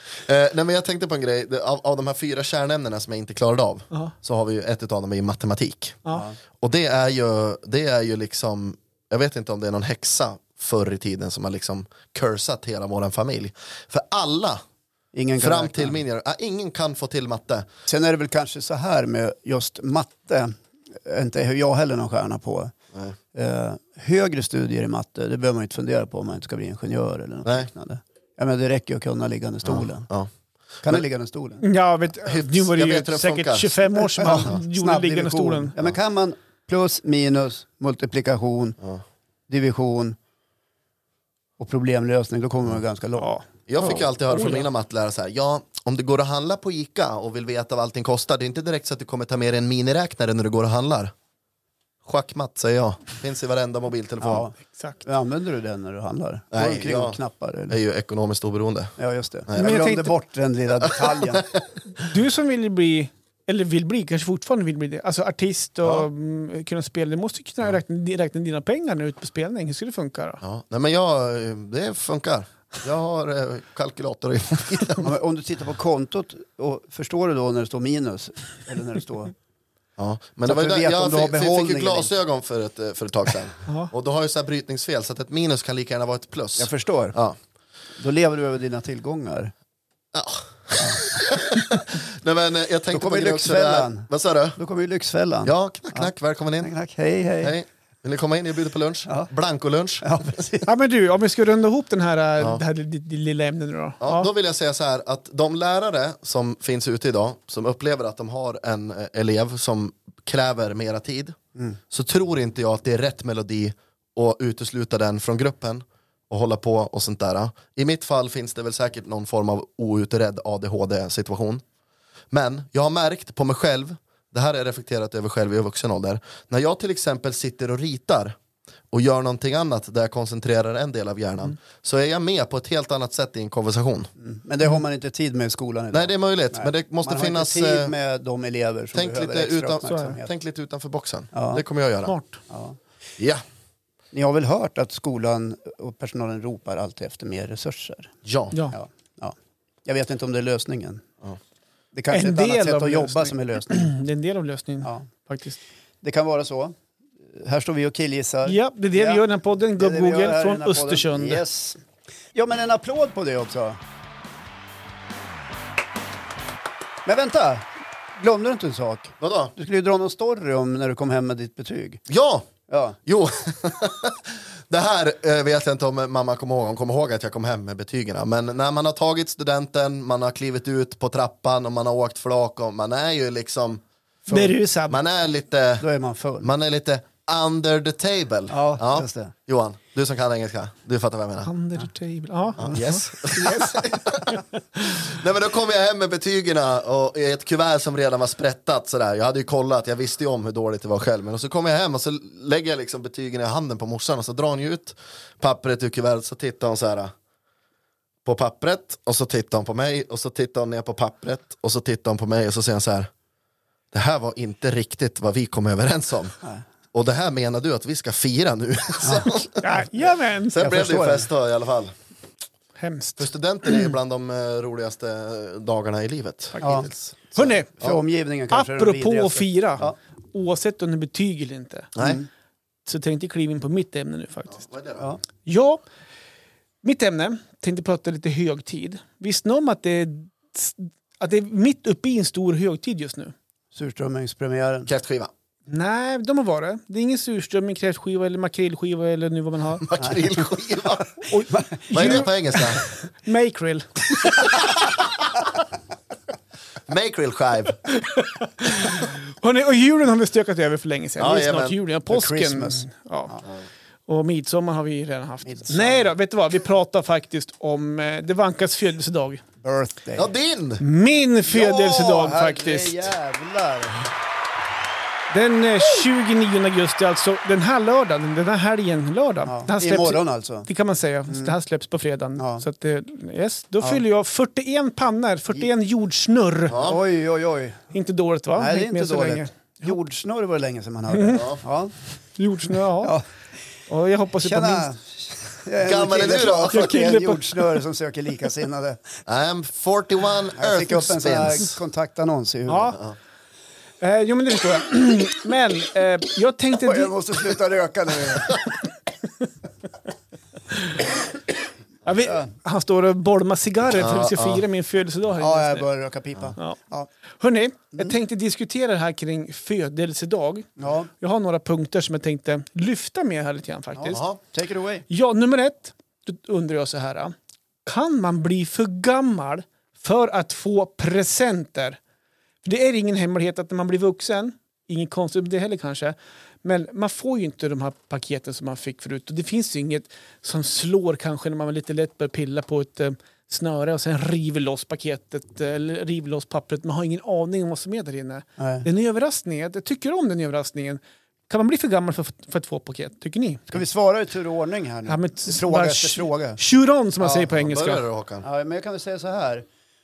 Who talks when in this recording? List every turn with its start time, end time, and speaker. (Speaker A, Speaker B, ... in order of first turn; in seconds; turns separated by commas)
Speaker A: 0.2-6.0, Speaker B: 6.1-6.4, Speaker A: 6.6-14.6, Speaker B: 15.1-16.0, Speaker A: 15.4-17.7, Speaker B: 17.9-22.7, Speaker B: 23.3-30.1, Speaker A: 29.6-30.3, Speaker B: 30.8-31.6, Speaker C: 31.6-35.7, Speaker A: 32.2-33.8, Speaker B: 34.2-38.8, Speaker B: 39.5-40.2, Speaker B: 41.6-43.3, Speaker C: 43.2-44.7, Speaker A: 43.7-51.1, Speaker A: 52.0-54.5, Speaker B: 54.2-57.8, Speaker C: 54.7-55.0, Speaker A: 56.5-57.2, Speaker A: 57.7-58.9, Speaker B: 59.0-61.5, Speaker C: 59.6-60.1, Speaker A: 60.8-61.6, Speaker C: 61.9-70.4, Speaker A: 65.8-66.1, Speaker A: 70.4-75.1, Speaker B: 75.0-79.3, Speaker A: 80.0-87.4, Speaker B: 80.5-82.1, Speaker C: 83.7-83.9, Speaker B: 86.6-87.2, Speaker B: 88.0-89.5, Speaker A: 90.1-94.6, Speaker B: 92.9-97.5, Speaker A: 95.4-96.7, Speaker A: 97.4-100.3, Speaker B: 100.0-100.7, Speaker C: 100.7-104.3, Speaker A: 104.0-111.3, Speaker A: 111.9-121.6, Speaker A: 122.3-128.3, Speaker A: 128.9-134.1, Speaker B: 134.2-140.3, Speaker A: 135.9-137.9, Speaker A: 138.9-142.1, Speaker C: 139.9-140.1, Speaker B: 141.3-141.6, Speaker C: 142.1-142.4, Speaker B: 142.5-142.8, Speaker B: 144.1-148.1, Speaker A: 148.2-148.6, Speaker B: 148.7-149.3, Speaker B: 149.8-151.1, Speaker B: 151.9-153.9, Speaker C: 152.1-155.6, Speaker B: 156.0-156.8, Speaker B: 157.3-159.2, Speaker C: 158.4-161.4, Speaker B: 159.8-161.8, Speaker B: 162.3-163.8, Speaker B: 167.1-172.0, Speaker A: 169.2-169.5, Speaker A: 172.1-172.5, Speaker B: 172.7-173.0, Speaker A: 173.1-185.8, Speaker C: 184.3-185.0, Speaker B: 185.8-186.5, Speaker A: 186.4-191.5, Speaker B: 188.5-189.3, Speaker C: 191.4-193.7, Speaker A: 192.6-207.1, Speaker B: 192.6-193.8, Speaker C: 194.3-194.9, Speaker A: 208.2-213.1, Speaker A: 213.9-216.4, Speaker A: 216.9-219.8, Speaker C: 219.5-220.6, Speaker A: 220.5-221.9, Speaker B: 220.6-221.3, Speaker C: 222.8-223.3, Speaker A: 223.2-228.0, Speaker C: 226.5-227.7, Speaker B: 226.6-226.9, Speaker B: 227.8-229.9, Speaker C: 228.5-232.1, Speaker B: 232.0-232.2, Speaker C: 232.8-234.6, Speaker A: 234.5-235.1, Speaker C: 235.4-235.8, Speaker C: 236.8-243.3, Speaker B: 243.7-244.9, Speaker A: 244.9-245.3, Speaker C: 245.7-249.9, Speaker A: 249.8-251.1, Speaker C: 251.3-254.6, Speaker B: 251.5-252.2, Speaker A: 251.9-252.8, Speaker A: 256.9-257.8, Speaker C: 257.9-263.4, Speaker A: 261.2-261.8, Speaker B: 262.1-263.4, Speaker C: 264.1-269.4, Speaker B: 265.4-266.1, Speaker B: 269.6-270.3, Speaker A: 270.1-270.8, Speaker C: 270.8-273.1, Speaker B: 271.4-274.1, Speaker C: 275.3-286.8, Speaker B: 279.5-280.7, Speaker B: 281.3-281.5, Speaker B: 282.4-282.6, Speaker A: 286.7-287.0, Speaker B: 286.8-287.8, Speaker C: 287.9-289.9, Speaker B: 288.6-291.9, Speaker C: 291.1-291.5, Speaker A: 291.3-291.6, Speaker C: 292.4-293.2, Speaker C: 293.9-294.9, Speaker B: 294.4-299.2, Speaker A: 295.8-296.9, Speaker C: 296.7-297.8, Speaker A: 299.3-301.8, Speaker B: 300.5-303.0, Speaker C: 302.7-303.0, Speaker C: 304.0-307.1, Speaker B: 306.8-308.6, Speaker C: 310.8-311.0, Speaker C: 312.1-315.9, Speaker B: 312.2-312.5, Speaker A: 313.9-314.6, Speaker B: 315.4-317.1, Speaker C: 317.4-324.2, Speaker B: 320.8-321.1, Speaker B: 323.9-325.0, Speaker A: 324.1-324.4, Speaker C: 325.1-332.0, Speaker C: 332.6-353.7, Speaker B: 348.6-348.9, Speaker B: 353.7-356.6, Speaker C: 355.1-358.0, Speaker B: 357.2-357.5, Speaker A: 357.5-358.4, Speaker B: 358.4-359.6